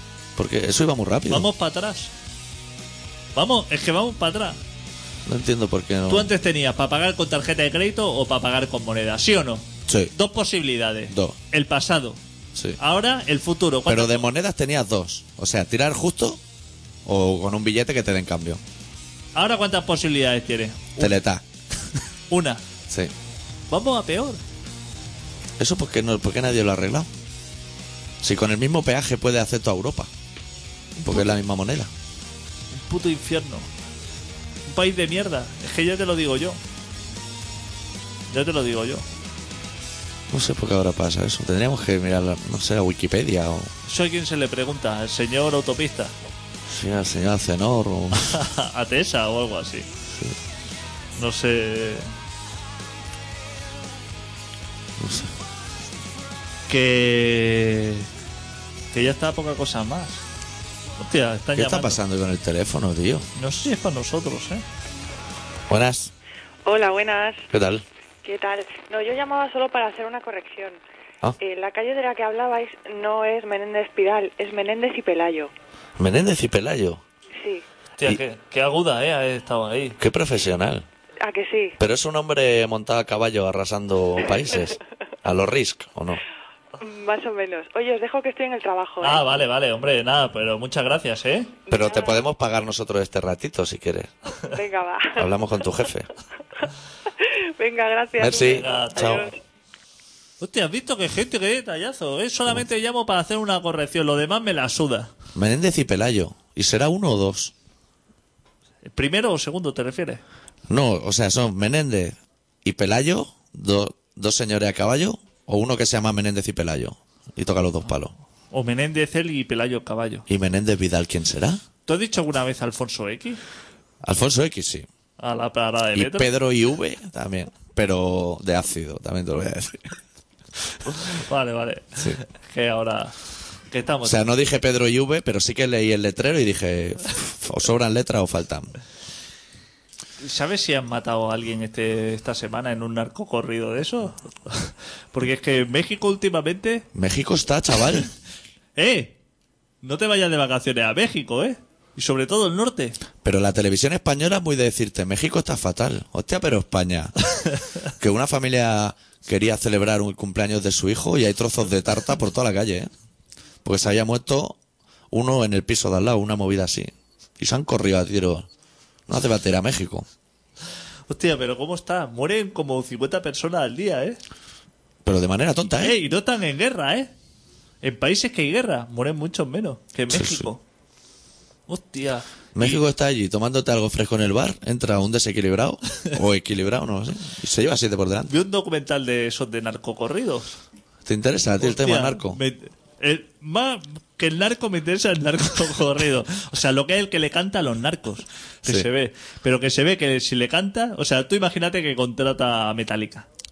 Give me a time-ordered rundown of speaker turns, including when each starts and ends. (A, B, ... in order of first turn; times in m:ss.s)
0:00.4-0:01.5 A
0:01.3-0:02.1 B
0:03.3-0:04.6 B
0:05.2-0:06.3 A
0:06.1-0:12.2 B
0:09.9-0:10.1 A
0:11.1-0:11.4 A
0:12.8-0:14.3 B
0:13.9-0:16.4 A
0:17.0-0:18.6 A
0:19.3-0:21.1 B
0:21.0-0:21.4 A
0:22.3-0:22.6 B
0:23.7-0:24.4 B
0:25.6-0:27.1 A
0:28.2-0:30.1 A
0:31.0-0:31.9 A
0:31.0-0:31.3 B
0:32.7-0:33.7 B
0:34.7-0:36.6 B
0:38.3-0:39.0 B
0:40.3-0:43.7 A
0:43.8-0:46.1 B
0:46.7-0:48.3 A
0:48.2-0:49.9 B
0:51.2-0:52.1 B
0:55.0-0:55.3 A
0:56.7-0:58.1 B
0:58.9-1:00.2 B
1:01.0-1:02.0 B
1:01.5-1:03.3 A
1:03.4-1:04.6 B
1:05.7-1:06.1 A
1:06.6-1:07.5 C
1:07.5-1:07.8 A
1:08.2-1:10.8 C
1:11.4-1:15.5 C
1:16.0-1:17.0 A
1:17.4-1:17.6 C
1:18.0-1:20.0 B
1:20.0-1:20.9 A
1:21.2-1:21.8 C
1:21.8-1:26.2 A
1:26.8-1:29.3 C
1:29.0-1:31.5 B
1:31.7-1:32.2 C
1:31.7-1:34.1 A
1:34.5-1:35.9 C
1:35.2-1:36.1 A
1:37.2-1:39.3 C
1:38.2-1:39.3 A
1:38.3-1:39.2 B
1:40.4-1:45.1 B
1:45.3-1:47.5 A
1:48.8-1:50.2 B
1:50.7-1:58.1 A
1:58.5-2:00.2 B
2:00.3-2:01.6 A
2:01.8-2:03.4 B
2:04.0-2:04.9 A
2:05.2-2:06.3 B
2:05.9-2:10.0 A
2:11.1-2:13.1 B
2:13.7-2:14.2 B
2:14.0-2:18.7 A
2:20.2-2:26.8 B
2:26.9-2:28.1 A
2:28.8-2:29.2 B
2:29.8-2:33.0 B
2:33.2-2:37.1 A
2:38.0-2:42.9 A
2:43.6-2:44.6 A
2:45.1-2:48.5 A
2:49.1-2:50.1 A
2:51.1-2:54.2 B
2:55.0-2:56.0 A
2:55.8-2:57.1 B
2:57.8-3:00.6 B
3:00.1-3:00.5 A
3:01.7-3:02.8 B
3:02.5-3:08.3 A
3:08.3-3:10.6 B
3:11.0-3:12.4 A
3:11.6-3:23.3 B